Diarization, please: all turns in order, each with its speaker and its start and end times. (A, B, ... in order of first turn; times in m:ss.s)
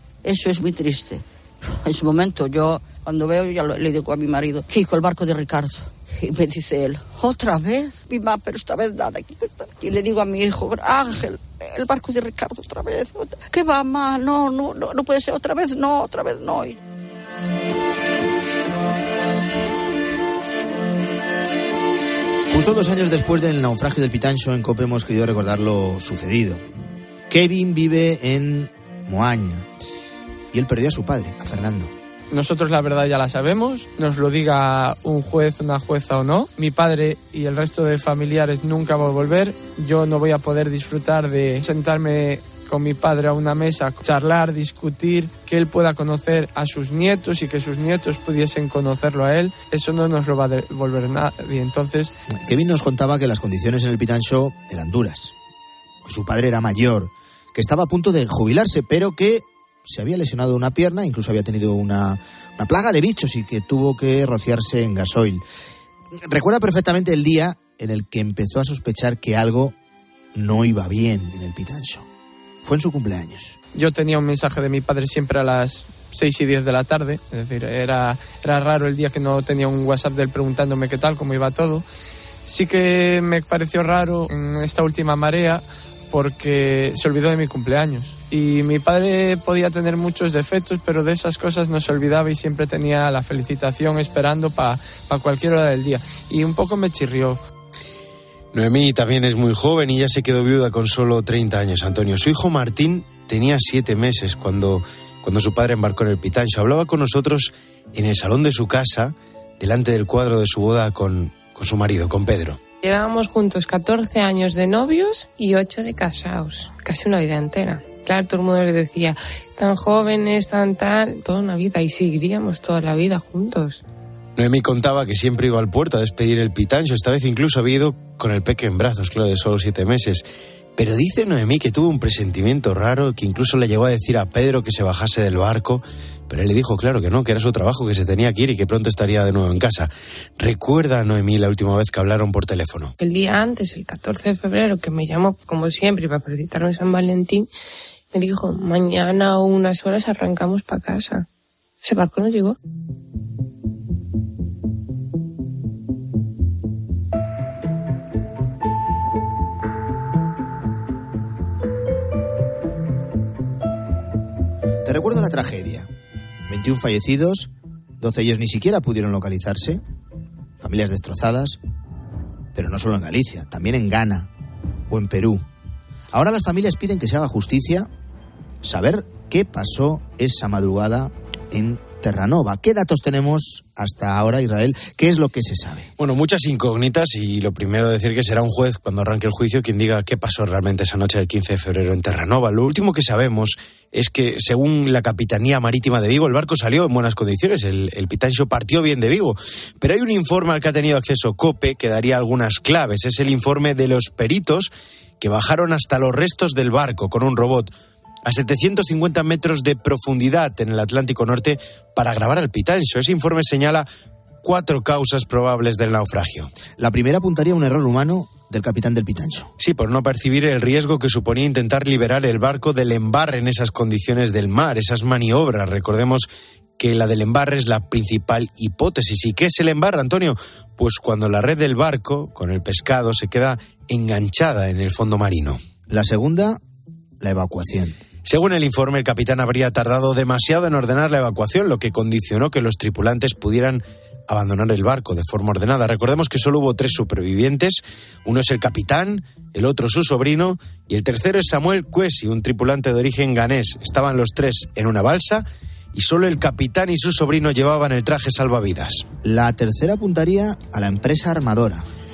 0:00.4-0:01.2 A
0:01.9-0:05.7 A
0:06.4-0:11.2 A
0:12.0-0:16.7 A
0:22.5-0:26.7 B
0:27.3-0:29.6 B
0:30.5-0:31.9 B
0:32.3-0:52.1 C
0:52.4-0:55.3 B
0:56.0-1:05.4 B
1:06.2-1:09.7 B
1:10.3-1:12.0 B
1:12.6-1:13.5 B
1:13.7-1:21.8 C
1:22.5-1:37.4 C
1:38.5-1:52.6 D
1:52.8-2:03.8 E
2:04.4-2:10.2 D
2:10.8-2:22.9 D
2:23.0-2:27.5 E
2:28.1-2:31.2 E
2:31.8-2:32.6 E
2:44.8-2:45.9 B
2:46.5-2:49.8 B
2:50.6-2:51.6 B
2:52.5-2:54.3 B
2:54.9-2:55.4 B
2:56.1-2:57.9 B
2:58.6-3:05.9 B
3:06.0-3:27.7 D
3:28.2-3:33.9 D
3:34.4-3:36.5 D
3:36.8-3:39.5 B
3:39.6-3:55.6 D
3:55.9-3:56.6 B
3:57.2-3:58.0 B
3:58.2-4:19.1 D
4:19.2-4:21.8 B